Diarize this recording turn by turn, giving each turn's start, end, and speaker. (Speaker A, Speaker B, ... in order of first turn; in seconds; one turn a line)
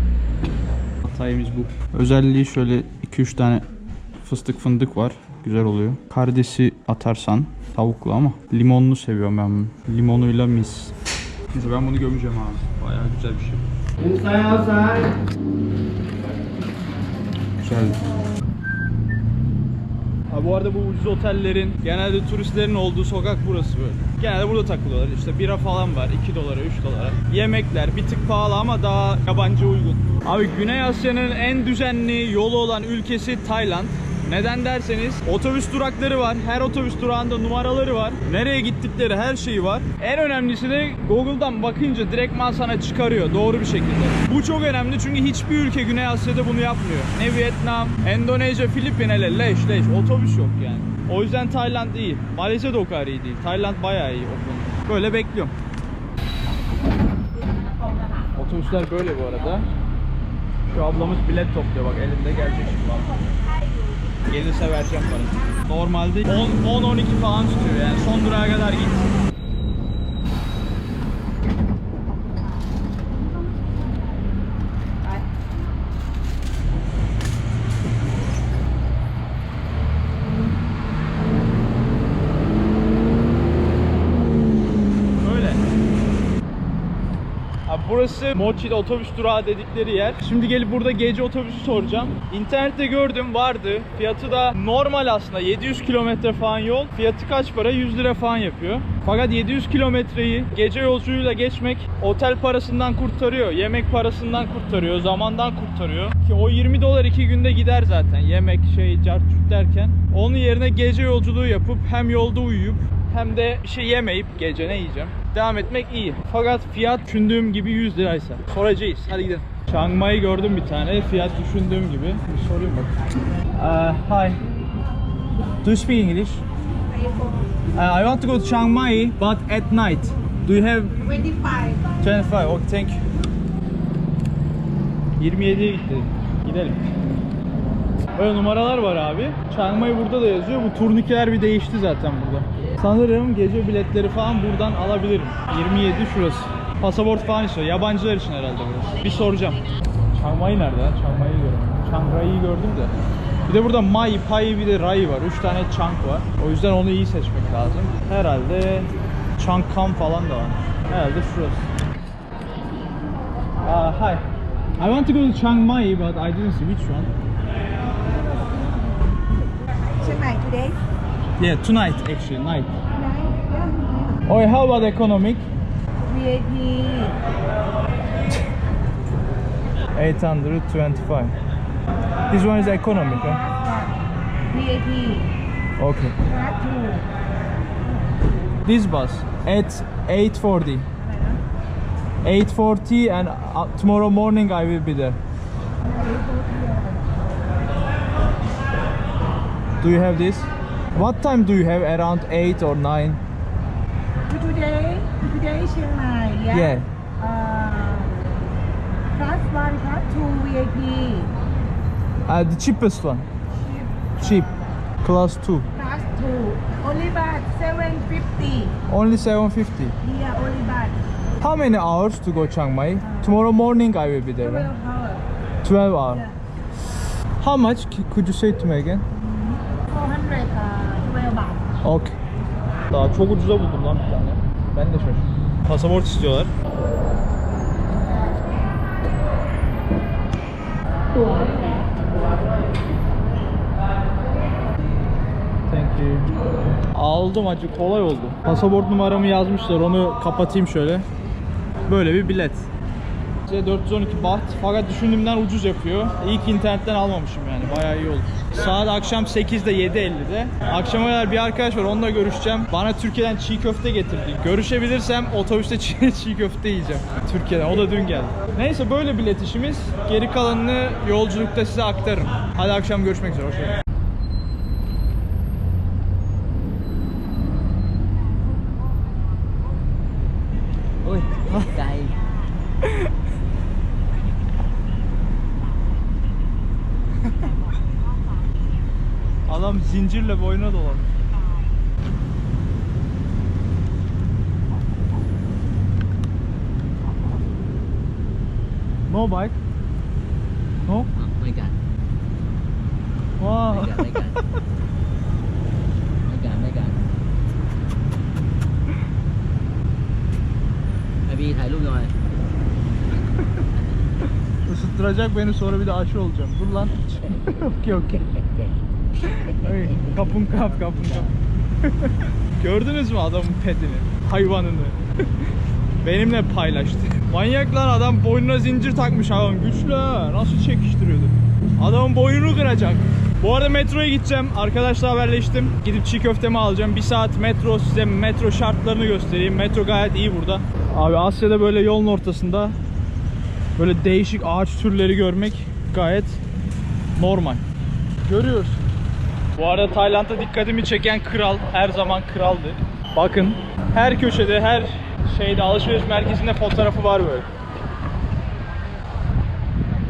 Speaker A: 1.0-3.7
Speaker A: 4.2-10.9
Speaker A: 11.5-15.2
Speaker A: 17.6-18.0
Speaker A: 20.3-55.5
Speaker A: 58.4-59.7
Speaker A: 60.7-63.1
Speaker A: 64.3-69.2
Speaker A: 85.2-85.6
Speaker A: 87.7-122.9
Speaker A: 123.5-124.4
Speaker A: 125.6-126.4
Speaker A: 127.8-131.1
Speaker A: 132.0-133.0
Speaker A: 135.2-137.0
Speaker A: 138.2-152.9
Speaker A: 153.5-161.7
Speaker A: 163.6-164.2
Speaker A: 164.8-167.1
Speaker B: 169.9-170.8
Speaker A: 171.4-172.8
Speaker B: 173.0-174.1
Speaker A: 174.3-175.5
Speaker B: 176.1-177.2
Speaker A: 179.9-181.3
Speaker A: 182.3-183.5
Speaker B: 183.5-183.9
Speaker B: 184.5-185.3
Speaker A: 185.8-186.2
Speaker B: 186.3-187.1
Speaker A: 188.7-190.9
Speaker A: 192.2-195.2
Speaker B: 195.9-197.1
Speaker A: 199.8-203.2
Speaker B: 204.3-206.5
Speaker A: 206.5-206.9
Speaker B: 207.2-208.1
Speaker B: 209.1-211.3
Speaker A: 212.3-213.3
Speaker A: 214.2-215.7
Speaker B: 215.8-218.7
Speaker A: 218.9-220.0
Speaker B: 220.0-221.0
Speaker A: 221.4-224.7
Speaker B: 224.7-225.2
Speaker A: 225.6-226.3
Speaker A: 227.0-229.1
Speaker B: 229.2-231.6
Speaker A: 231.8-232.1
Speaker A: 232.9-236.5
Speaker A: 245.7-246.3
Speaker A: 246.9-251.1
Speaker A: 251.9-252.7
Speaker A: 253.5-273.7
Speaker C: 281.1-282.1
Speaker A: 289.5-291.1
Speaker A: 299.1-299.6
Speaker A: 303.4-304.3
Speaker C: 306.4-307.0
Speaker C: 311.4-312.1
Speaker A: 313.4-313.6
Speaker A: 314.6-318.7
Speaker A: 319.2-325.0
Speaker A: 326.0-342.8
Speaker A: 343.8-346.4
Speaker A: 347.2-347.6
Speaker A: 348.2-348.8
Speaker A: 349.6-357.5